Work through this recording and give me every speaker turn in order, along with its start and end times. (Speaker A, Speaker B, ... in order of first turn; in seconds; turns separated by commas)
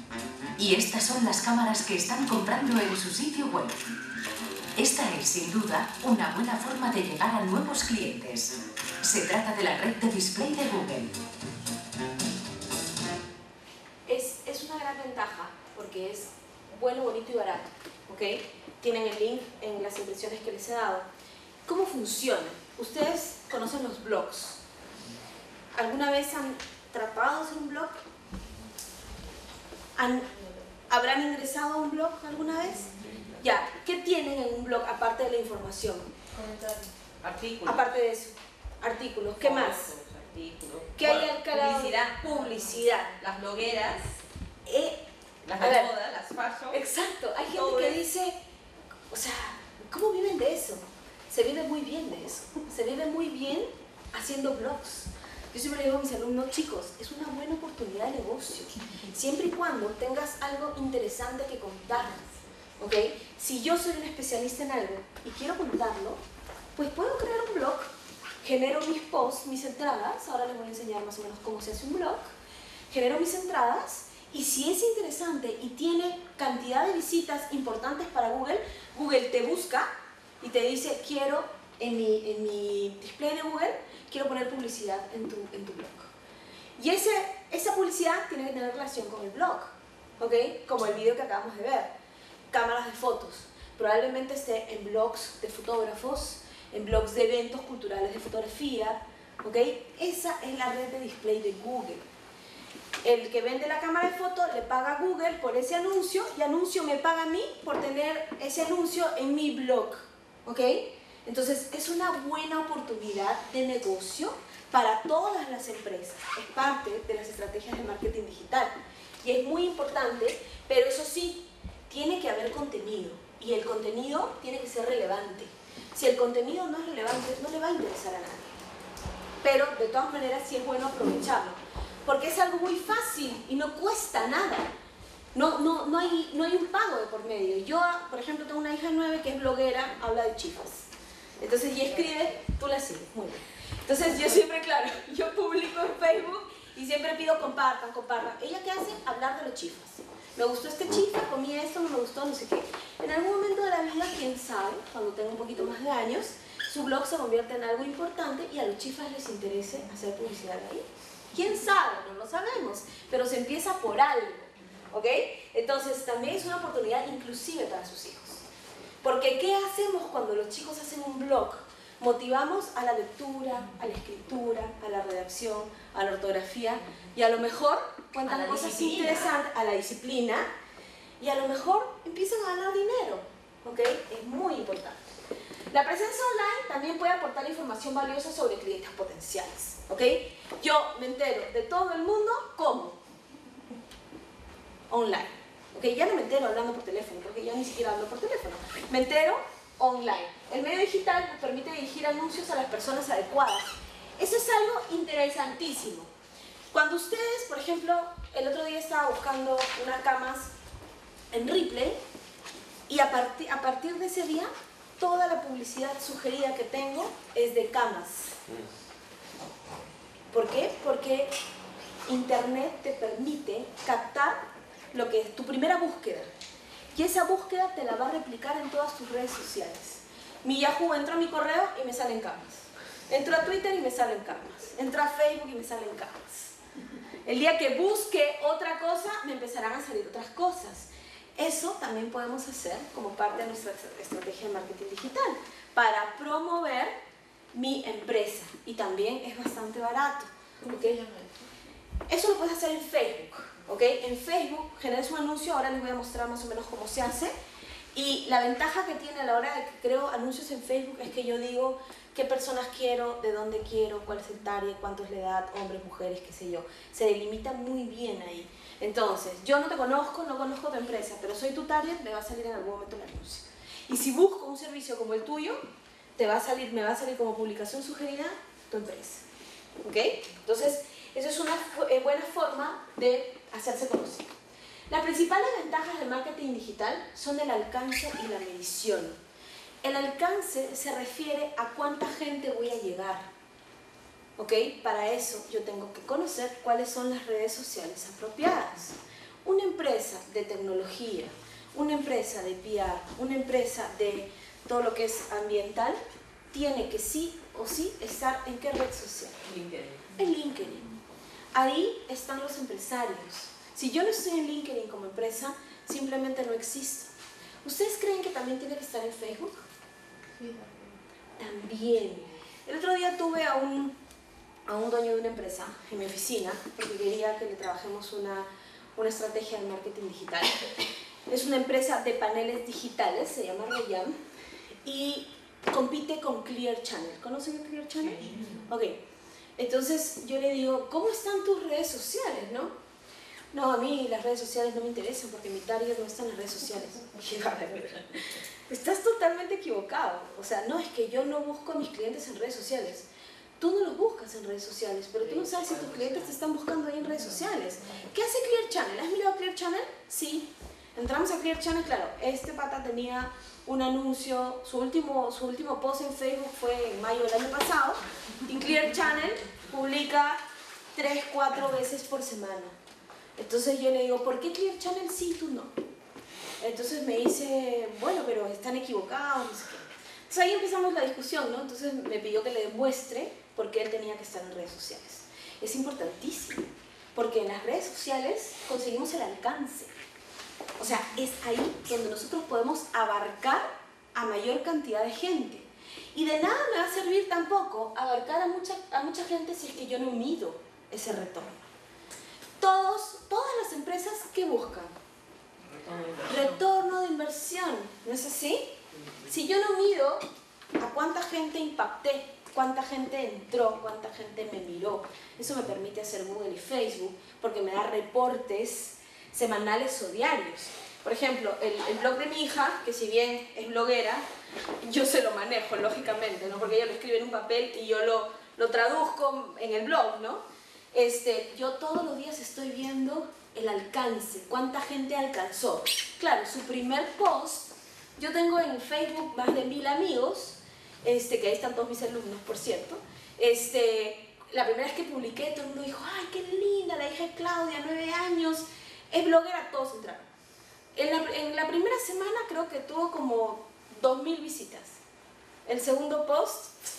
Speaker A: 0.6-3.8, Speaker A: 4.8-11.1, Speaker B: 14.1-21.1, Speaker B: 21.7-24.6, Speaker B: 25.7-28.0, Speaker B: 30.0-30.3, Speaker B: 30.9-36.1, Speaker C: 36.3-36.9, Speaker D: 37.2-37.8, Speaker B: 37.6-39.9, Speaker D: 39.4-44.1, Speaker B: 41.0-43.1, Speaker B: 44.7-45.0, Speaker D: 45.5-46.8, Speaker B: 45.6-45.9, Speaker B: 46.7-48.4, Speaker D: 47.5-48.0, Speaker B: 49.1-62.3, Speaker B: 62.8-66.2, Speaker B: 66.8-67.9, Speaker B: 68.4-72.3, Speaker B: 72.9-79.9, Speaker B: 80.4-86.1, Speaker B: 86.8-91.9, Speaker B: 92.5-102.0, Speaker B: 103.0-128.7, Speaker B: 129.4-134.7, Speaker B: 135.3-140.9, Speaker B: 141.4-168.4, Speaker B: 169.0-180.5, Speaker D: 178.3-179.4, Speaker B: 181.2-185.0, Speaker B: 185.7-193.0, Speaker B: 194.9-206.1, Speaker B: 206.7-210.5, Speaker B: 211.3-212.0, Speaker B: 212.9-218.4, Speaker B: 220.3-221.3, Speaker B: 222.1-226.3, Speaker B: 226.9-236.6, Speaker B: 237.2-246.9, Speaker B: 247.5-251.0, Speaker C: 250.7-251.4, Speaker B: 252.1-257.4, Speaker B: 257.9-275.6, Speaker B: 276.2-279.2, Speaker B: 279.8-284.3, Speaker B: 284.9-289.2, Speaker B: 289.8-293.3, Speaker B: 294.4-306.0, Speaker B: 306.5-309.4, Speaker D: 309.4-310.1, Speaker B: 310.2-310.9, Speaker B: 311.5-317.1, Speaker B: 317.6-319.7, Speaker C: 320.4-321.0, Speaker B: 321.4-324.0, Speaker B: 324.7-334.2, Speaker B: 334.8-339.0, Speaker D: 338.1-338.6, Speaker C: 338.3-338.5, Speaker B: 339.6-342.7, Speaker B: 343.5-353.1, Speaker B: 353.6-370.4, Speaker D: 355.2-356.4, Speaker B: 370.9-372.8, Speaker B: 373.4-375.7, Speaker B: 376.6-389.9, Speaker B: 390.8-401.7, Speaker B: 402.6-404.9, Speaker D: 405.6-406.6, Speaker B: 406.3-408.7, Speaker B: 409.3-410.2, Speaker B: 410.8-424.3, Speaker B: 424.8-450.3, Speaker B: 450.9-455.0, Speaker B: 455.7-456.8